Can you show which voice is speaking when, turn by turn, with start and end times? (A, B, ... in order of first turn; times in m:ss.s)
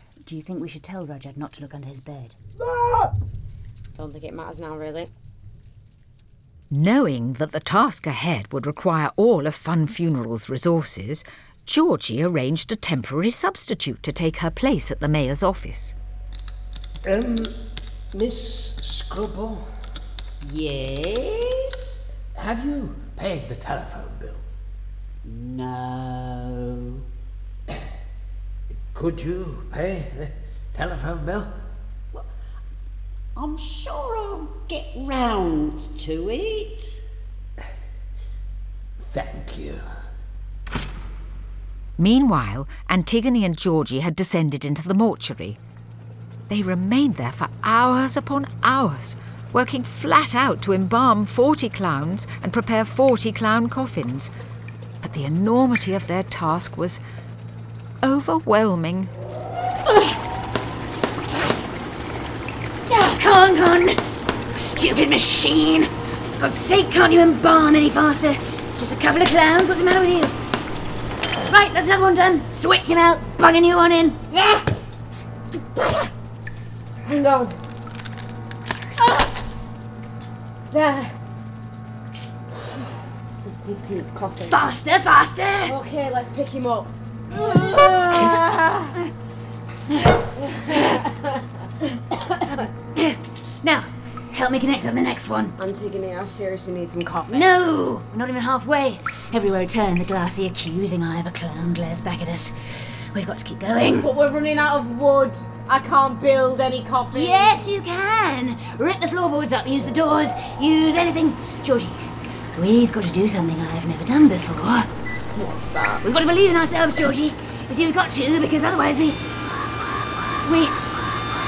0:00.2-0:02.4 A
0:04.0-0:05.1 B
0:06.7-0:16.0 C
0:17.1-0:17.5 D
0:18.1-0:19.6 D
0:20.4-0:21.6 E
0:22.4-0:24.4 D
0:28.9-0:31.5 D
0:33.8-0:35.5 E
0:36.4-0:36.8 E
0:39.0-0:39.8 D
0:42.0-0:45.6 C
0:46.5-0:54.3 C
0:55.0-0:57.0 C
0:58.0-0:59.1 C
1:02.9-1:04.0 A
1:04.5-1:10.4 A
1:11.4-1:14.2 A
1:17.0-1:17.6 B
1:20.7-1:21.2 B
1:23.3-1:24.7 B
1:24.4-1:25.8 A
1:25.6-1:28.9 B
1:27.4-1:28.4 A
1:29.9-1:31.0 A
1:30.4-1:31.4 B
1:32.5-1:35.6 A
1:35.6-1:37.6 B
1:37.3-1:44.1 A
1:44.0-1:47.9 B
1:47.1-1:54.9 A
1:55.4-1:56.0 B
1:56.0-1:59.2 A
2:00.4-2:00.8 A